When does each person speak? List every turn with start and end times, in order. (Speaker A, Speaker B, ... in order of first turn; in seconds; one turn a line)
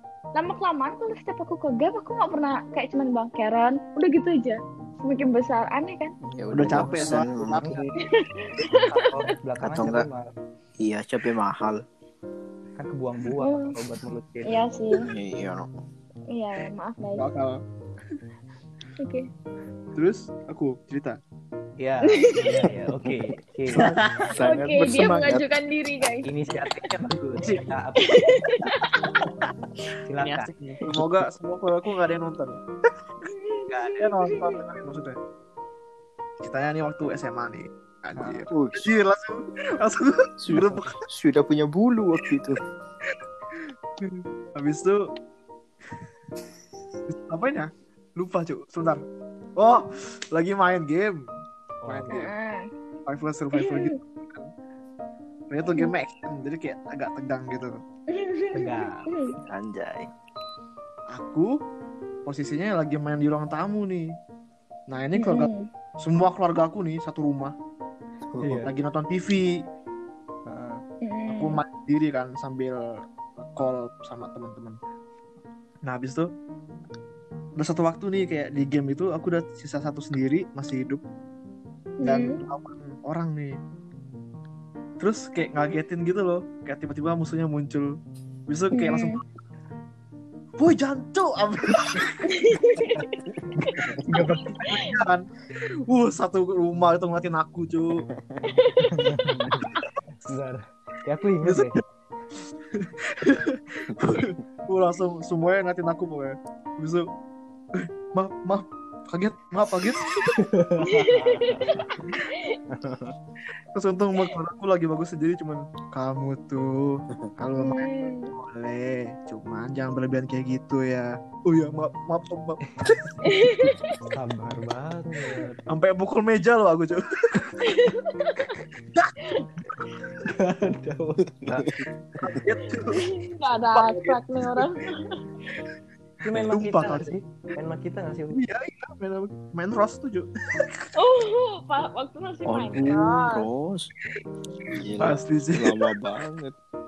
Speaker A: 0.4-6.1
Speaker B: 6.3-7.8
Speaker C: 6.5-8.0
Speaker A: 8.0-9.1
Speaker D: 8.8-10.3
Speaker B: 9.6-10.1
Speaker B: 10.8-11.8
Speaker D: 12.8-14.6
Speaker A: 13.4-13.8
Speaker A: 14.5-15.1
Speaker B: 14.9-15.7
Speaker A: 16.3-17.3
Speaker C: 17.2-17.6
Speaker A: 19.0-19.3
Speaker C: 19.9-21.2
Speaker D: 21.8-24.0
Speaker A: 22.1-22.5
Speaker B: 22.9-23.3
Speaker C: 23.7-24.3
Speaker B: 24.2-25.5
Speaker A: 24.4-26.3
Speaker D: 24.5-24.8
Speaker D: 26.2-28.7
Speaker C: 27.4-27.7
Speaker A: 28.0-29.2
Speaker D: 30.1-30.5
Speaker C: 30.2-32.6
Speaker B: 30.9-31.2
Speaker A: 33.2-34.6
Speaker D: 33.7-34.0
Speaker C: 33.9-35.2
Speaker C: 36.4-41.0
Speaker D: 38.2-38.5
Speaker B: 38.5-38.9
Speaker B: 40.4-42.6
Speaker C: 44.0-45.0
Speaker C: 47.1-49.0
Speaker C: 49.6-51.2
Speaker D: 51.8-52.3
Speaker C: 51.9-52.3
Speaker A: 52.1-52.7
Speaker C: 53.1-54.5
Speaker A: 53.5-53.9
Speaker C: 55.5-57.8
Speaker A: 55.7-55.9
Speaker A: 58.1-59.3
Speaker D: 58.5-59.1
Speaker B: 59.4-60.1
Speaker C: 61.1-61.5
Speaker C: 62.3-64.1
Speaker C: 64.9-65.5
Speaker A: 65.2-65.7
Speaker C: 66.0-67.5
Speaker B: 68.3-68.6
Speaker D: 68.4-68.7
Speaker C: 68.6-69.6
Speaker D: 70.5-70.8
Speaker A: 71.0-71.6
Speaker C: 71.3-72.8
Speaker C: 73.4-74.8
Speaker C: 75.8-76.3
Speaker C: 77.6-81.0
Speaker A: 82.0-82.4
Speaker C: 82.0-83.6
Speaker C: 85.0-87.9
Speaker C: 88.5-89.2
Speaker A: 88.7-89.2
Speaker C: 90.6-93.0
Speaker A: 92.3-93.1
Speaker B: 93.4-94.0
Speaker D: 93.6-94.6
Speaker C: 94.3-95.3
Speaker A: 94.7-94.9
Speaker C: 95.9-98.1
Speaker B: 98.1-98.5
Speaker A: 98.5-99.0
Speaker D: 98.8-99.7
Speaker D: 100.2-101.8
Speaker C: 101.4-101.8
Speaker C: 102.7-107.1
Speaker C: 107.8-110.4
Speaker D: 110.3-112.1
Speaker A: 110.9-112.6
Speaker D: 112.7-113.2
Speaker C: 113.8-123.0
Speaker A: 117.6-118.3
Speaker D: 122.7-123.2
Speaker A: 123.3-124.0
Speaker D: 124.0-125.6
Speaker C: 125.7-127.7
Speaker A: 127.6-128.6
Speaker D: 130.2-131.7
Speaker B: 131.6-132.4
Speaker C: 132.2-133.0
Speaker A: 132.8-135.2
Speaker C: 133.7-134.7
Speaker D: 136.2-138.4
Speaker B: 136.3-136.6
Speaker C: 136.5-137.2
Speaker C: 138.3-140.9
Speaker A: 141.0-143.5
Speaker B: 142.5-143.9
Speaker C: 144.7-146.0
Speaker B: 144.7-146.6